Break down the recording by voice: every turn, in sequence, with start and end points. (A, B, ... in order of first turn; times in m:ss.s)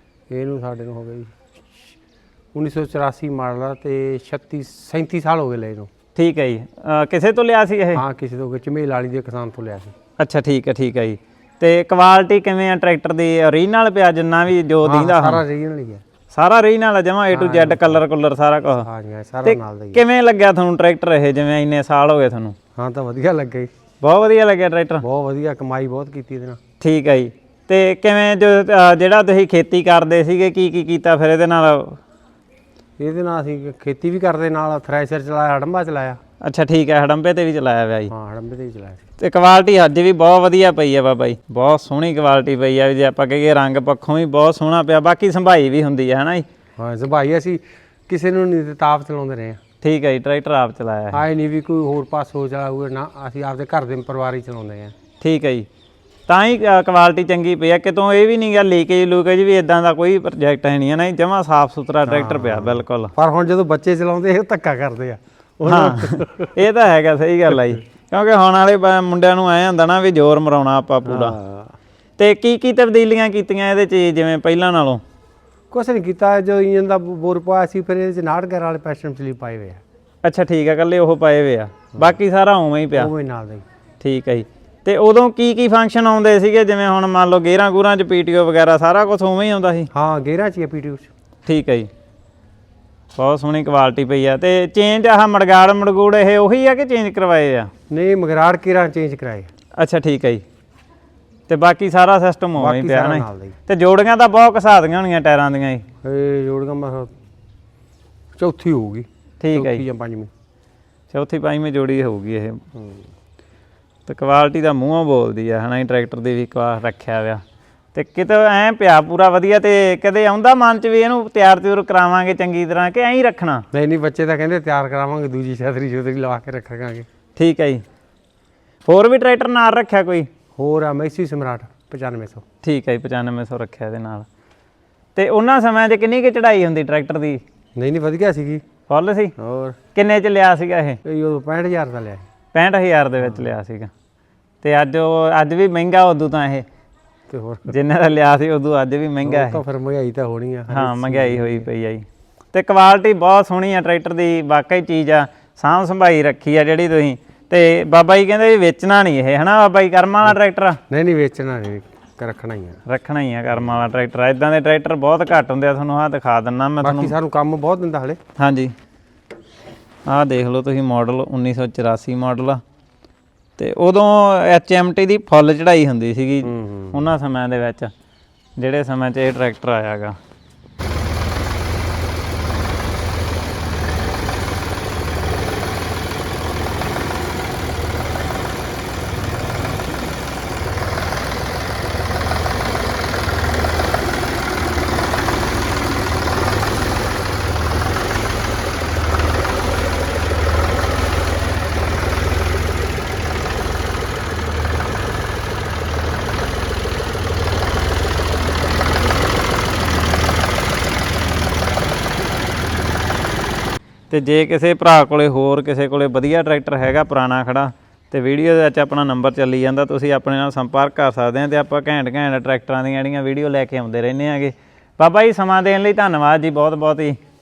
0:00.3-0:01.3 A
0:02.5-0:05.9 A
0:06.2-0:08.0 B
0:08.0-0:10.0 A
0:10.2-0:15.4 B
0:14.8-0:16.0 A
0:16.3-0:18.9 B
0:17.3-0:18.0 A
0:18.7-0:20.0 A
0:19.4-0:22.6 B
0:22.8-0:23.7 A
0:24.0-0:25.0 B
0:25.0-0:26.6 A
0:26.8-0:32.0 B
0:33.0-0:36.2 A
0:36.4-0:38.1 B
0:38.1-0:39.0 A
0:39.2-0:46.4 B
0:46.8-0:49.6 A
0:49.8-0:51.2 B
0:51.1-0:54.9 A
0:55.2-0:55.7 B
0:56.3-1:03.1 B
1:02.1-1:06.6 A
1:05.7-1:11.4 B
1:11.0-1:11.8 A
1:12.2-1:15.0 B
1:15.7-1:19.8 A
1:20.2-1:23.1 B
1:22.9-1:23.6 A
1:24.0-1:29.9 B
1:29.9-1:31.1 A
1:31.5-1:31.9 B
1:33.2-1:37.7 B
1:37.9-1:39.5 A
1:39.8-1:40.4 B
1:41.5-1:45.9 B
1:42.6-1:43.6 A
1:46.0-1:47.1 A
1:48.4-1:50.3 A
1:49.4-1:49.8 B
1:51.1-1:52.6 B
1:52.8-1:53.1 A
1:54.1-1:57.4 B
1:57.9-2:03.6 B
2:03.7-2:07.1 A
2:07.4-2:07.8 B
2:08.9-2:10.3 B
2:10.6-2:12.4 A
2:12.6-2:14.3 B
2:15.2-2:17.4 B
2:17.8-2:18.6 A
2:18.9-2:19.3 B
2:19.4-2:19.8 A
2:20.0-2:21.0 B
2:21.0-2:22.3 A
2:22.5-2:23.9 B
2:23.2-2:23.5 A
2:24.6-2:26.6 B
2:27.3-2:27.8 A
2:27.7-2:29.6 B
2:29.2-2:31.7 A
2:30.7-2:40.8 B
2:40.9-2:42.8 A
2:42.9-2:47.1 B
2:46.8-2:48.2 A
2:48.4-2:48.7 B
2:50.1-2:52.6 B
2:53.6-2:57.9 B
2:56.4-2:57.1 A
2:58.6-3:00.2 B
3:34.1-3:47.2 B